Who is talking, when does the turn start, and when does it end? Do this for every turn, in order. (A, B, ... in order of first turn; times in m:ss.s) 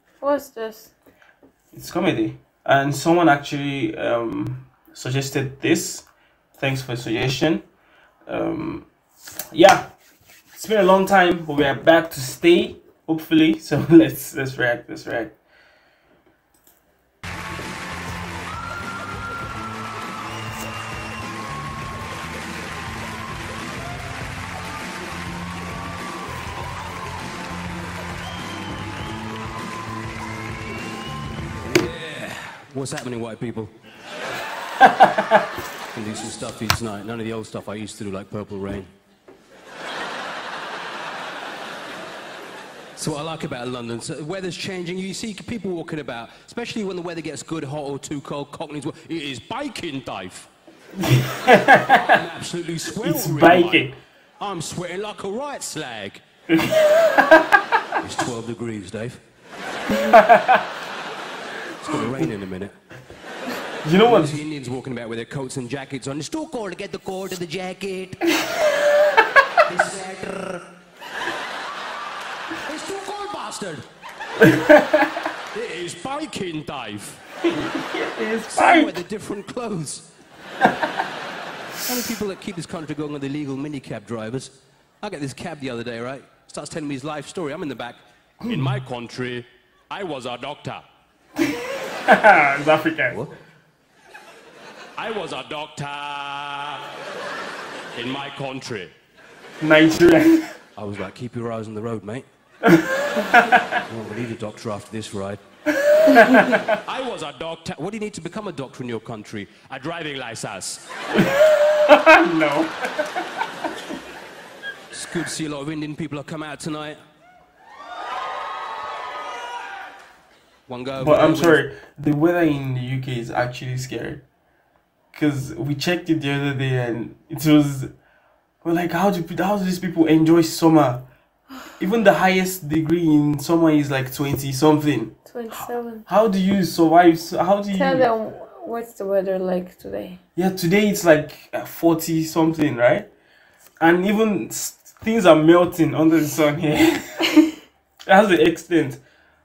0:00.2-0:00.9 A
0:01.7-0:06.1 B
0:06.6-0:07.6 B
0:08.3-0:08.9 B
0:09.5-0:09.9 B
0:10.5-0:15.3 B
0:31.6-0:33.7 C
0:34.8-0:35.4 B
0:35.9-0:38.9 C
0:43.0-0:50.5 C
0:51.0-0:52.2 B
0:52.0-0:56.2 C
0:53.0-0:53.9 B
0:56.5-0:57.6 B
0:58.0-0:59.2 C
0:59.9-1:00.6 B
1:01.8-1:02.7 C
1:03.8-1:04.4 B
1:04.0-1:08.2 C
1:09.7-1:10.6 C
1:12.6-1:13.8 C
1:14.4-1:15.1 B
1:15.5-1:17.2 C
1:17.4-1:18.9 B
1:18.5-1:20.1 C
1:21.8-1:30.8 C
1:28.4-1:28.8 B
1:32.0-1:33.2 B
1:35.0-1:36.9 C
1:37.9-1:38.9 C
1:39.6-1:40.5 B
1:40.8-1:42.2 C
1:42.6-1:43.8 B
1:43.8-1:45.4 C
1:45.9-1:46.8 B
1:46.1-1:50.8 C
1:51.1-1:52.9 B
1:54.9-1:57.0 C
2:00.7-2:01.6 C
2:01.0-2:04.2 B
2:05.1-2:07.9 B
2:08.6-2:11.0 B
2:11.8-2:18.1 B
2:15.3-2:16.0 A
2:17.7-2:20.2 A
2:20.4-2:23.1 B
2:23.8-2:27.5 B
2:28.1-2:29.0 B